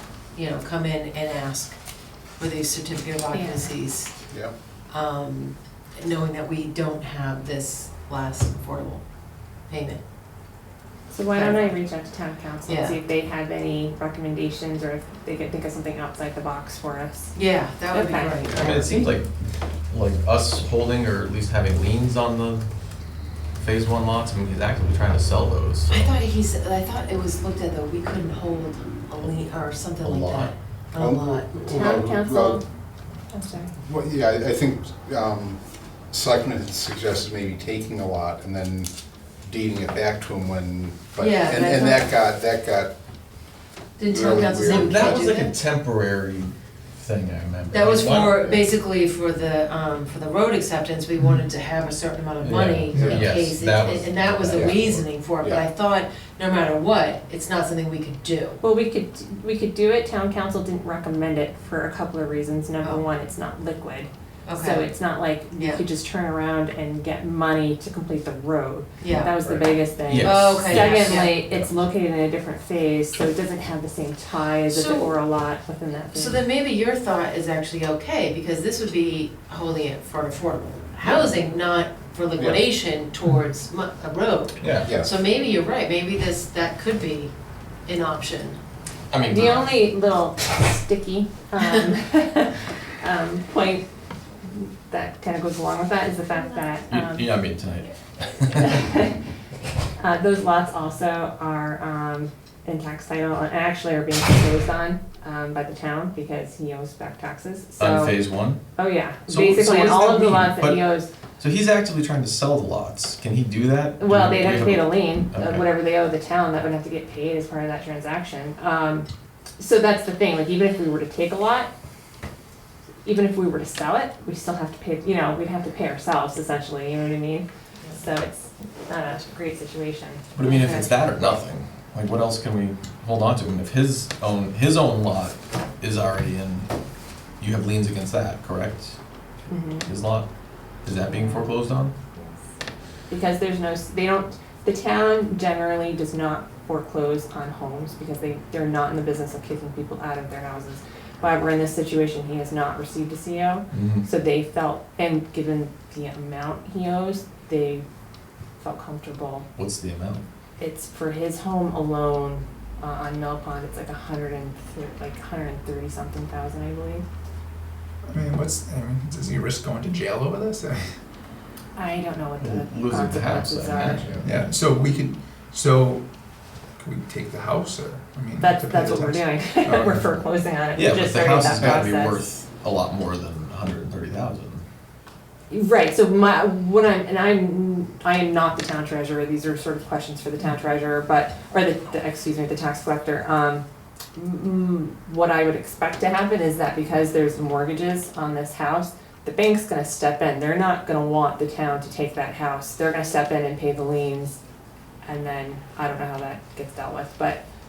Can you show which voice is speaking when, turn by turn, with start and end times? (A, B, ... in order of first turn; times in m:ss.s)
0:00.3-0:01.8 A
0:02.4-0:04.1 A
0:03.3-0:03.7 B
0:04.9-0:09.0 A
0:09.7-0:10.0 A
0:11.1-0:17.4 B
0:11.3-0:11.8 A
0:12.6-0:13.0 A
0:17.3-0:19.2 A
0:17.9-0:18.8 B
0:18.5-0:19.3 C
0:19.9-0:22.6 C
0:23.6-0:26.1 C
0:25.9-0:32.0 A
0:30.0-0:32.6 D
0:31.6-0:32.6 B
0:33.3-0:33.7 B
0:33.8-0:43.0 D
0:41.2-0:42.2 A
0:44.0-0:45.5 A
0:44.0-0:45.4 D
0:44.6-0:48.7 C
0:47.7-0:58.6 A
0:52.4-0:55.1 C
0:52.9-0:53.2 E
0:53.0-0:53.2 D
0:55.4-0:55.6 D
0:58.6-1:16.4 B
1:04.4-1:04.9 A
1:05.5-1:05.8 A
1:09.0-1:09.6 A
1:10.0-1:11.9 C
1:10.2-1:11.4 A
1:14.7-1:15.1 A
1:16.1-1:27.3 A
1:21.0-1:21.3 C
1:22.4-1:22.7 D
1:24.6-1:24.9 C
1:24.8-1:25.2 D
1:27.8-1:28.6 A
1:29.1-1:29.7 C
1:29.2-1:33.8 B
1:34.4-1:37.3 B
1:36.9-1:38.8 C
1:38.5-1:39.2 B
1:40.0-1:48.2 B
1:47.8-1:48.8 C
1:48.8-1:51.1 B
1:49.3-1:55.7 C
1:54.0-1:59.0 B
1:59.6-2:01.7 B
2:03.0-2:10.3 B
2:10.3-2:16.7 C
2:10.4-2:10.9 A
2:17.4-2:19.0 C
2:19.5-2:19.9 B
2:19.8-2:20.3 C
2:20.8-2:21.9 C
2:21.0-2:21.5 B
2:22.1-2:22.4 B
2:23.1-2:37.8 B
2:33.7-2:34.1 C
2:38.6-2:39.5 B
2:39.6-2:40.2 C
2:40.6-2:47.0 B
2:48.0-2:51.0 E
2:51.8-2:54.2 B
2:52.4-2:54.2 C
2:54.2-2:56.1 E
2:56.8-3:00.2 E
2:58.4-3:02.2 B
3:00.7-3:04.6 C
3:01.6-3:01.8 D
3:05.5-3:13.6 B
3:14.1-3:24.4 B
3:25.0-3:27.4 B